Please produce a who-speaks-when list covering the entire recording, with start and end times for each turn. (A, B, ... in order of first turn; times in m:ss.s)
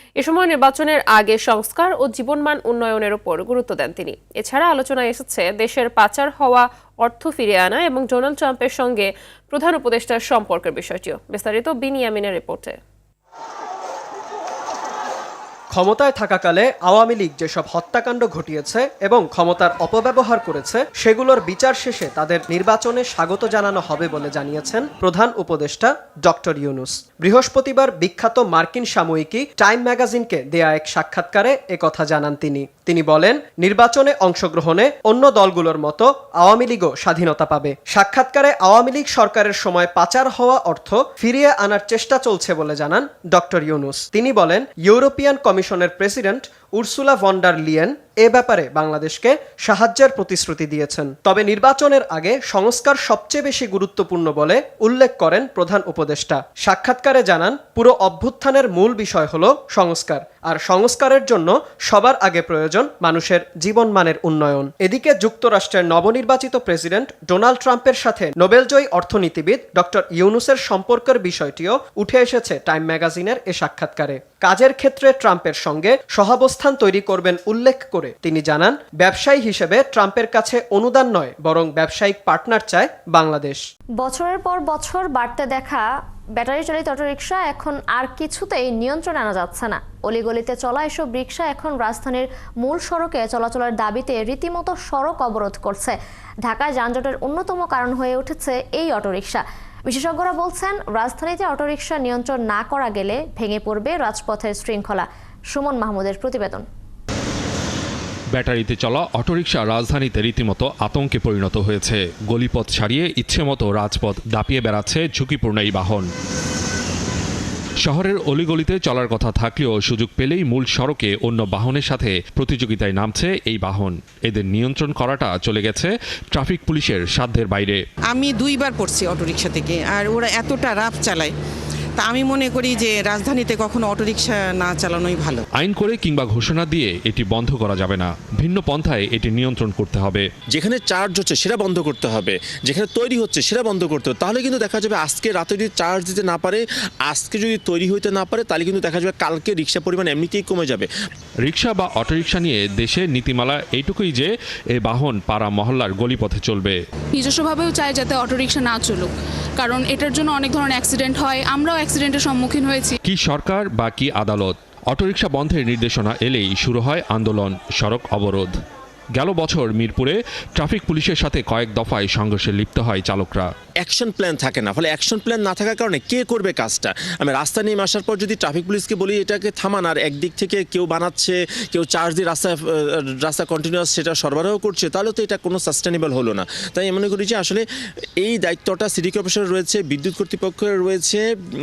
0:00.2-0:12.8 A
0:15.7-1:23.6 B
1:24.0-1:46.7 C
1:48.3-1:56.1 D
1:57.8-2:07.8 D
2:08.1-2:11.3 E
2:12.0-2:15.4 E
2:15.6-2:20.3 D
2:20.5-2:30.9 F
2:31.4-2:36.8 D
2:37.1-2:43.0 G
2:43.1-2:48.5 D
2:49.2-2:53.5 D
2:53.8-3:02.6 F
3:03.2-3:07.6 F
3:08.2-3:11.2 F